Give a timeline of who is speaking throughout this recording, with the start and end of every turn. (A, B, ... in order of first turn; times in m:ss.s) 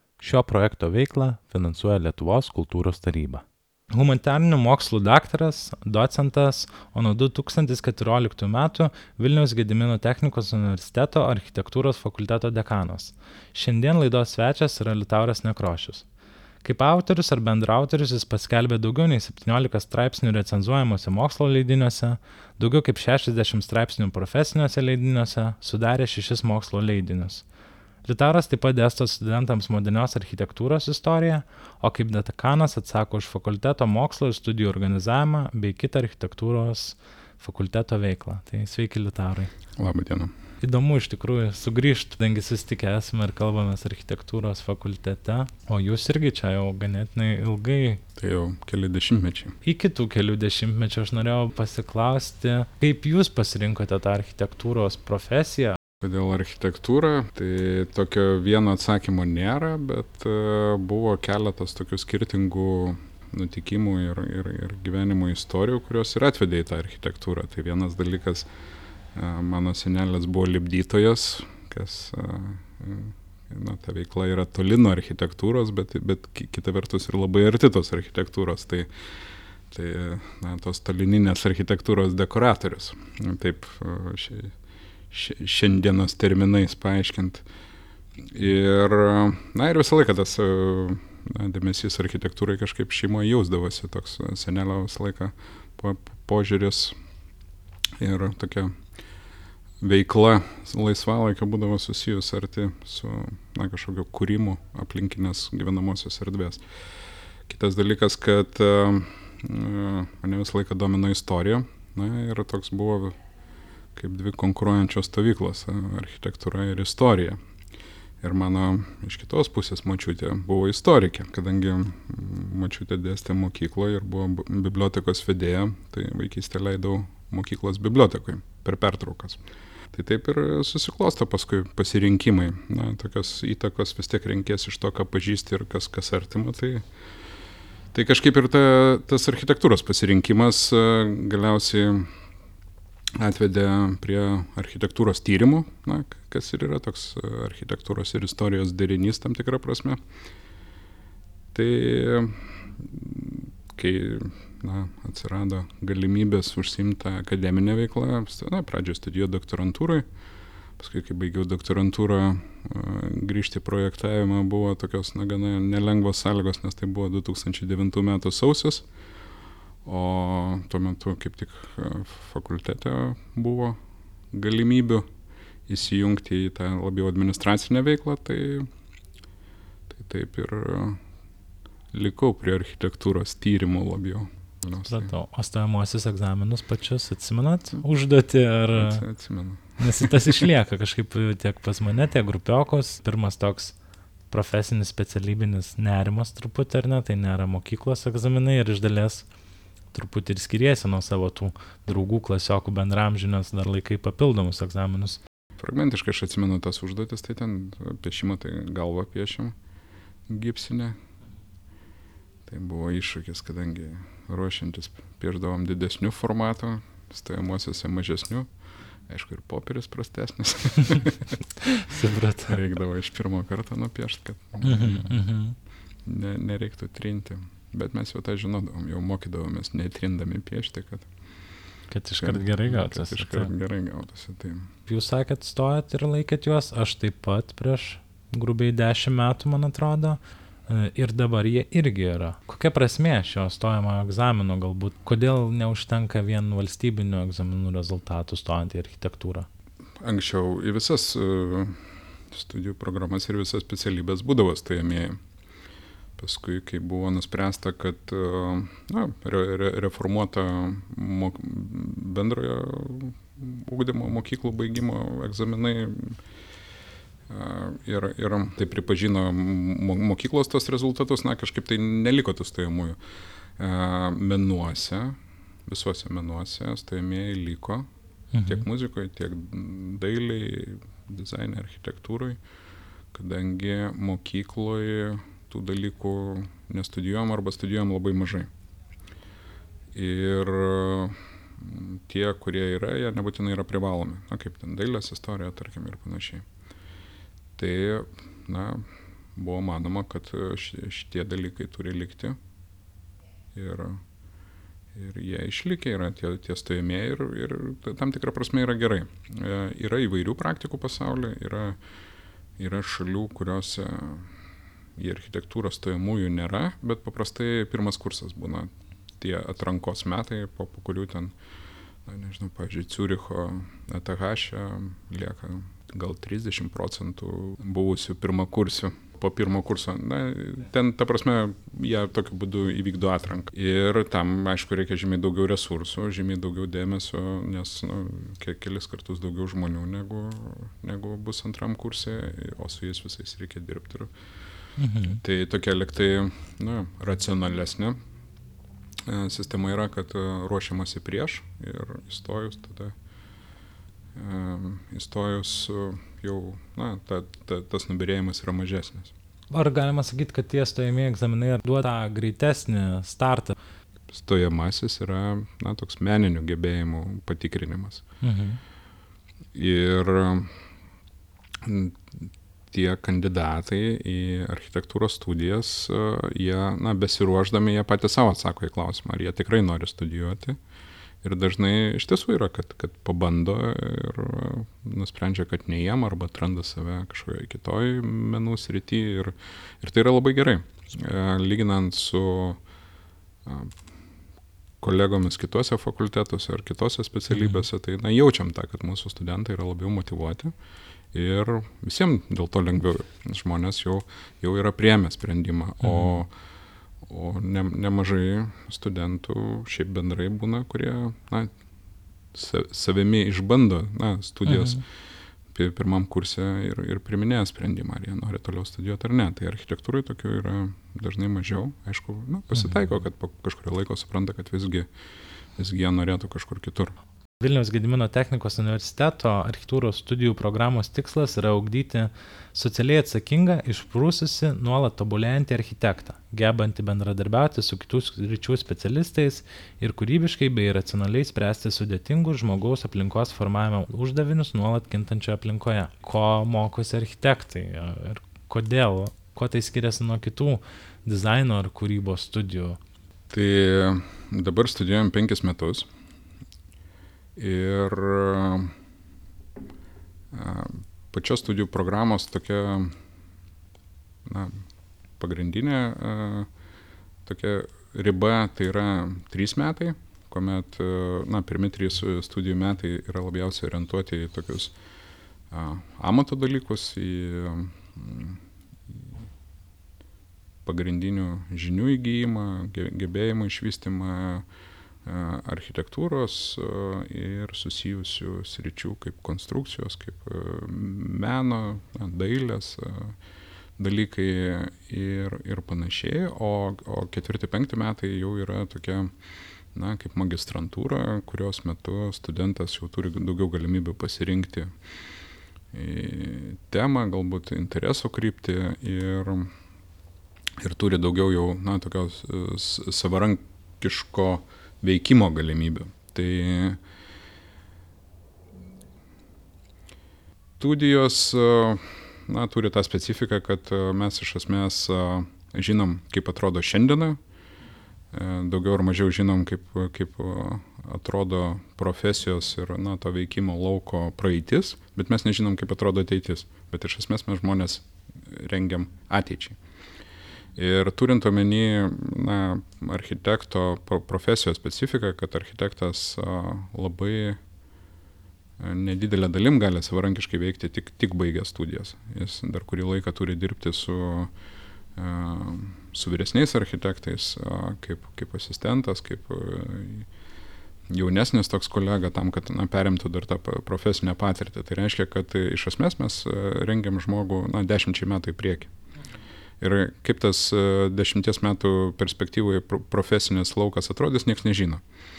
0:00.2-0:16.0 A
0:16.6-0:27.4 A
0:28.0-0:39.5 A
0:39.7-0:40.3 B
0:40.6-0:48.0 A
0:48.2-0:49.5 B
0:49.6-0:55.8 A
0:56.0-1:08.4 B
1:09.1-1:18.9 B
1:19.7-1:24.5 B
1:25.1-1:27.4 B
1:28.2-1:37.0 B
1:38.0-1:38.7 B
1:39.8-1:46.6 B
1:47.5-1:53.2 B
1:53.9-1:57.4 B
1:58.2-2:16.8 B
2:17.9-2:22.1 B
2:23.2-2:30.0 B
2:31.5-2:40.0 B
2:40.8-2:48.8 B
2:49.8-2:53.8 B
2:54.3-2:55.1 B
2:55.7-2:58.7 B
2:59.9-3:01.0 B
3:01.9-3:05.1 B
3:04.8-3:09.0 A
3:08.7-3:10.4 B
3:09.8-3:13.8 A
3:14.3-3:19.2 A
3:19.9-3:25.2 A
3:25.6-3:29.5 B
3:30.3-3:31.0 B
3:32.4-3:38.5 B
3:39.1-3:41.4 B
3:41.6-3:42.6 A
3:42.4-3:45.2 B
3:44.6-3:45.6 A
3:46.0-3:51.1 B
3:51.9-3:53.5 A
3:52.2-3:54.7 B
3:54.9-4:09.5 A
4:10.0-4:15.2 B
4:16.2-4:26.2 B
4:27.3-4:33.0 B
4:33.6-4:35.2 B
4:35.7-4:37.9 B
4:38.3-4:38.6 A
4:38.4-4:42.4 B
4:43.1-4:48.5 B
4:49.9-4:56.4 B
4:57.6-5:02.4 B
5:03.5-5:04.0 B
5:04.9-5:11.8 B
5:12.6-5:14.3 B
5:15.0-5:21.3 B
5:22.0-5:44.1 B
5:44.8-5:45.2 A
5:45.2-5:48.0 B
5:49.0-5:52.9 B
5:54.1-5:59.1 B
5:59.5-6:03.6 A
6:04.1-6:08.0 B
6:08.2-6:08.6 A
6:09.5-6:10.5 B
6:11.6-6:20.6 B
6:21.2-6:32.6 B
6:33.4-6:33.7 B
6:34.8-6:40.5 B
6:37.3-6:37.6 A
6:41.1-6:46.3 B
6:45.8-6:46.1 A
6:47.0-6:51.5 B
6:52.3-6:54.8 B
6:54.5-6:54.8 A
6:55.5-7:04.9 B
7:05.6-7:06.9 B
7:07.4-7:32.8 A
7:33.3-7:35.9 B
7:37.4-7:38.7 B
7:40.3-7:43.0 B
7:44.2-7:44.6 B
7:45.2-7:46.5 B
7:47.2-7:54.7 B
7:55.5-7:59.1 B
8:00.6-8:04.4 B
8:05.0-8:13.2 B
8:13.8-8:19.1 B
8:19.7-8:24.7 B
8:25.7-8:29.5 B
8:30.6-8:36.8 B
8:40.6-8:47.2 B
8:48.1-8:59.6 B
9:00.6-9:07.4 B
9:08.6-9:14.3 B
9:14.9-9:20.1 B
9:20.9-9:28.7 B
9:29.6-9:34.8 B